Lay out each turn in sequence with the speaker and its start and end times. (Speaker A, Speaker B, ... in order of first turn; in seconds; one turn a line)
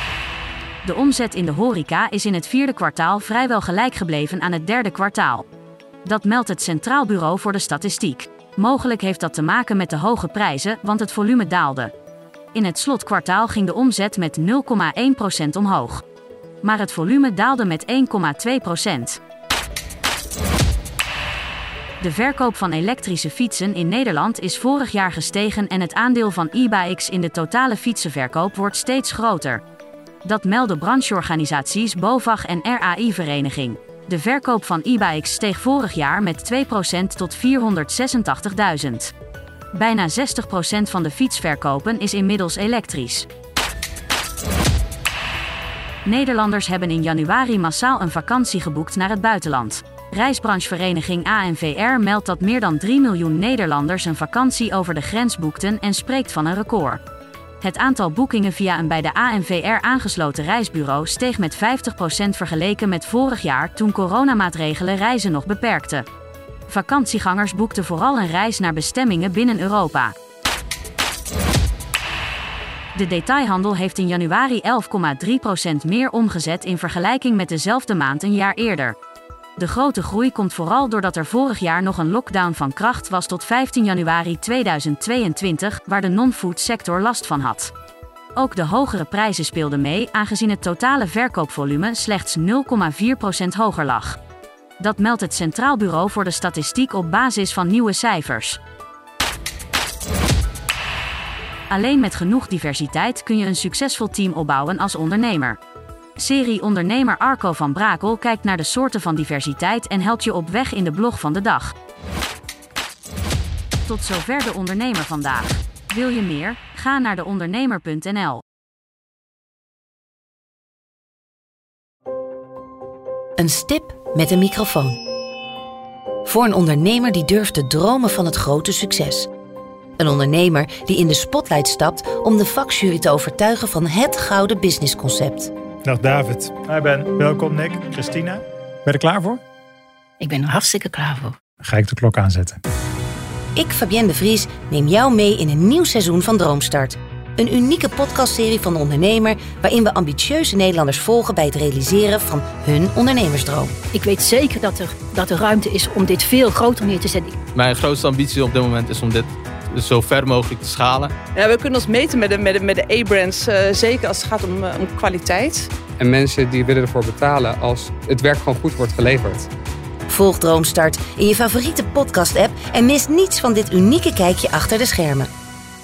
Speaker A: 0.8-5.5
Speaker A: 6.0-11.9
Speaker A: 12.5-16.0
Speaker A: 16.6-19.2
Speaker A: 22.0-29.6
Speaker A: 30.2-39.1
Speaker A: 39.7-43.3
Speaker A: 46.0-57.0
Speaker A: 57.6-66.1
Speaker A: 66.7-70.1
Speaker A: 73.0-79.0
Speaker A: 79.6-87.7
Speaker A: 88.4-94.2
Speaker A: 94.8-98.6
Speaker A: 101.7-105.6
Speaker A: 106.2-111.7
Speaker A: 113.9-118.4
Speaker B: 123.4-125.0
Speaker B: 126.2-129.3
Speaker B: 130.0-135.5
Speaker C: 135.8-139.4
Speaker D: 140.2-141.3
Speaker C: 141.6-142.6
Speaker B: 143.6-153.7
Speaker D: 153.9-157.3
Speaker E: 157.5-161.1
Speaker F: 161.3-165.7
Speaker G: 166.0-169.5
Speaker B: 170.1-175.3